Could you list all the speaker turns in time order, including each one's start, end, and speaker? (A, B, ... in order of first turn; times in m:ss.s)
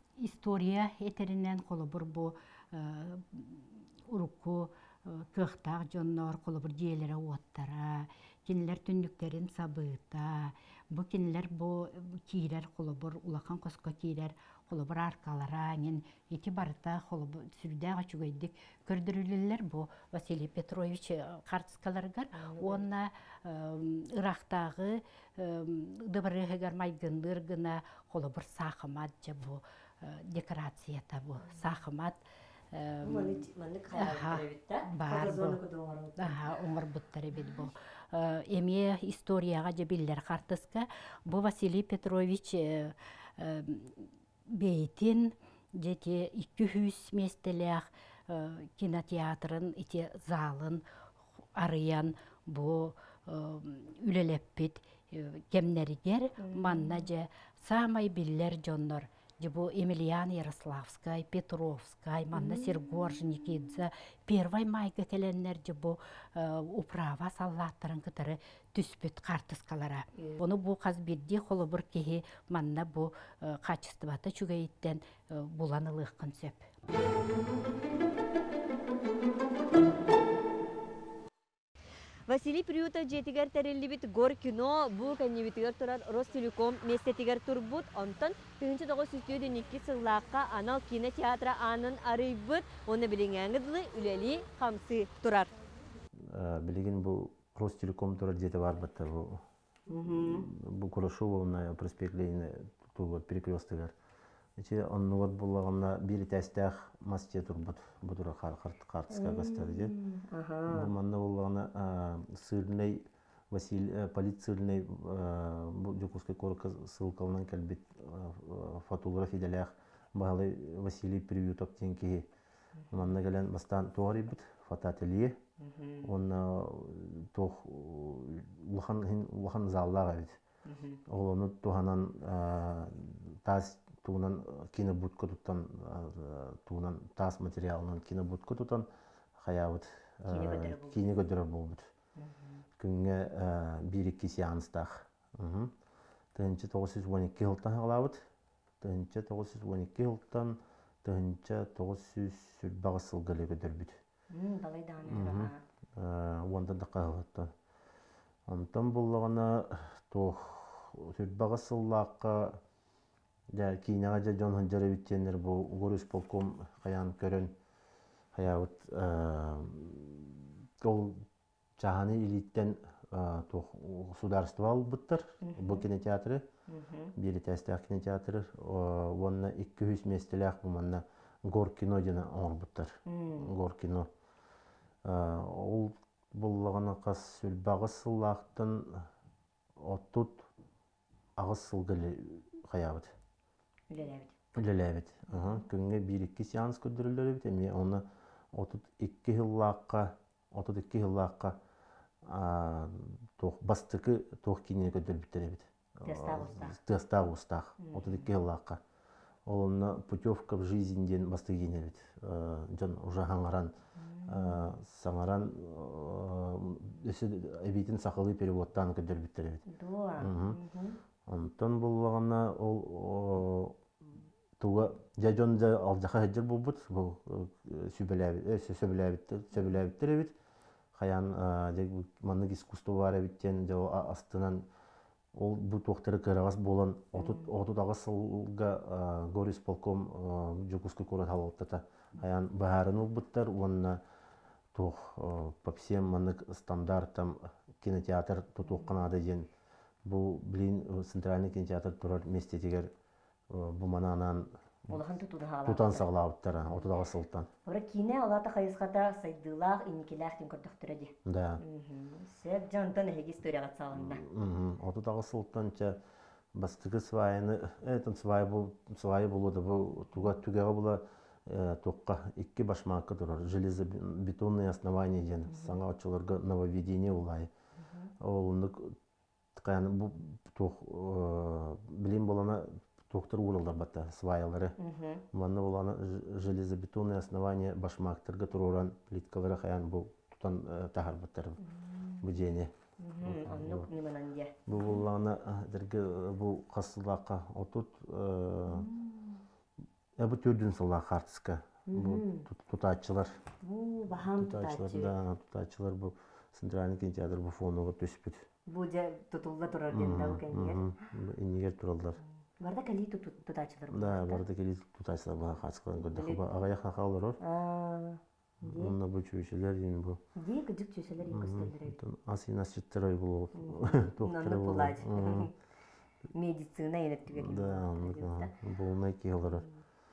0:00.2-0:32.2 A
0:22.3-0:22.8 B
0:32.7-0:35.6 A
0:33.0-0:36.6 B
0:36.2-0:50.8 A
0:37.4-0:37.7 B
0:51.6-1:16.7 A
0:56.4-0:57.0 B
1:02.3-1:02.8 B
1:22.3-1:35.5 B
1:36.3-1:39.4 C
1:39.9-1:40.5 B
1:40.1-1:43.9 C
1:44.6-1:49.9 C
1:49.1-1:50.9 B
1:50.7-2:02.3 C
2:02.8-2:03.0 B
2:02.9-2:05.4 C
2:05.6-2:06.1 B
2:06.0-2:10.4 C
2:10.6-2:11.0 B
2:11.1-2:21.9 C
2:20.3-2:21.0 B
2:22.2-2:22.6 B
2:22.8-2:25.7 C
2:26.4-2:28.3 C
2:28.8-2:34.0 C
2:34.3-2:35.6 B
2:35.1-2:37.5 C
2:38.5-2:42.6 C
2:43.5-2:47.5 C
2:48.3-2:51.3 C
2:51.8-2:56.5 C
2:55.4-2:55.8 B
2:56.7-2:57.1 B
2:57.2-3:04.1 C
3:03.1-3:03.5 B
3:05.0-3:09.1 C
3:09.8-3:10.5 C
3:11.4-3:13.1 C
3:13.9-3:14.3 B
3:14.6-3:21.6 C
3:22.2-3:28.8 C
3:26.0-3:26.8 B
3:27.8-3:28.3 B
3:29.5-3:33.7 C
3:34.0-3:34.6 B
3:34.3-3:39.6 C
3:39.7-3:41.0 B
3:40.2-3:40.6 C
3:41.3-3:43.8 C
3:44.6-3:50.4 C
3:50.9-3:54.6 C
3:55.3-4:04.0 C
3:57.2-3:57.5 B
4:04.7-4:09.5 C
4:10.0-4:12.9 C
4:13.5-4:15.1 C
4:14.9-4:16.1 B
4:15.6-4:17.5 C
4:17.7-4:24.2 B
4:21.3-4:21.6 C
4:23.9-4:26.0 C
4:26.6-4:37.5 C
4:35.5-4:35.8 B
4:37.8-4:38.1 B
4:38.2-4:39.0 C
4:39.6-4:44.8 C
4:44.8-4:45.2 B
4:45.3-4:51.6 C
4:51.6-4:52.3 B
4:52.2-4:53.9 C
4:53.0-4:55.0 B
4:54.7-4:58.9 C
4:58.7-4:59.4 B
5:00.2-5:03.4 C
5:01.9-5:02.5 B
5:03.6-5:05.1 B
5:04.2-5:08.5 C
5:08.7-5:10.8 B
5:09.9-5:12.2 C
5:12.6-5:14.4 B
5:13.9-5:17.4 C
5:16.0-5:16.5 B
5:17.4-5:18.9 B
5:18.6-5:20.2 C
5:20.4-5:22.0 B
5:21.3-5:25.5 C
5:23.6-5:25.5 B
5:26.3-5:28.5 B
5:27.3-5:29.7 C
5:29.5-5:29.8 B